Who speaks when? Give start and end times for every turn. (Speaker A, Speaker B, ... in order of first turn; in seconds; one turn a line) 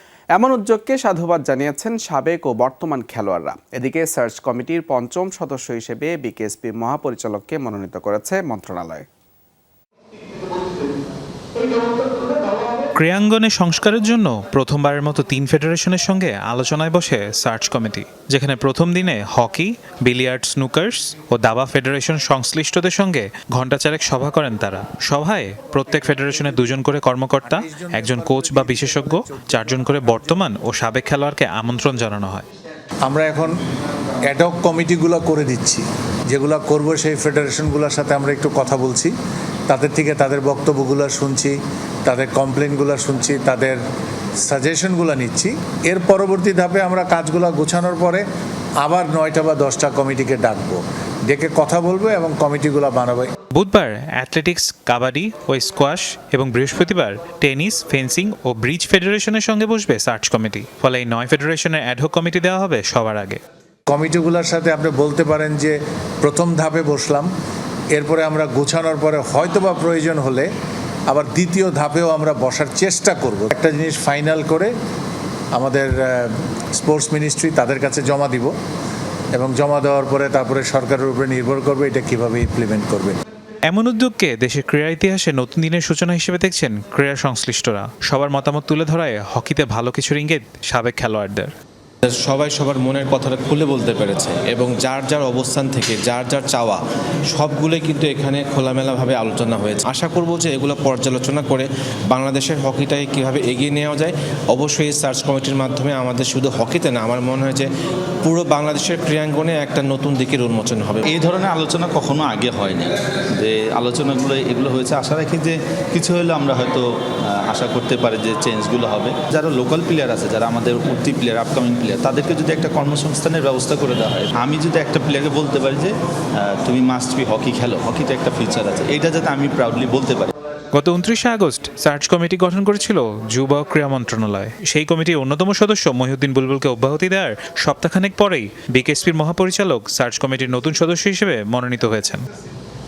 Speaker A: 0.4-9.1
Speaker B: 13.0-32.5
Speaker C: 27.4-30.3
Speaker C: 33.1-33.5
Speaker C: 34.3-39.1
Speaker C: 39.7-43.8
Speaker C: 44.5-48.2
Speaker C: 48.8-53.3
Speaker B: 53.5-63.4
Speaker C: 63.9-67.3
Speaker C: 68.0-70.5
Speaker C: 71.1-74.7
Speaker C: 75.6-78.5
Speaker C: 79.3-83.2
Speaker B: 83.7-91.5
Speaker D: 92.0-96.8
Speaker D: 97.3-107.7
Speaker D: 108.2-111.1
Speaker E: 111.1-130.3
Speaker B: 130.8-142.2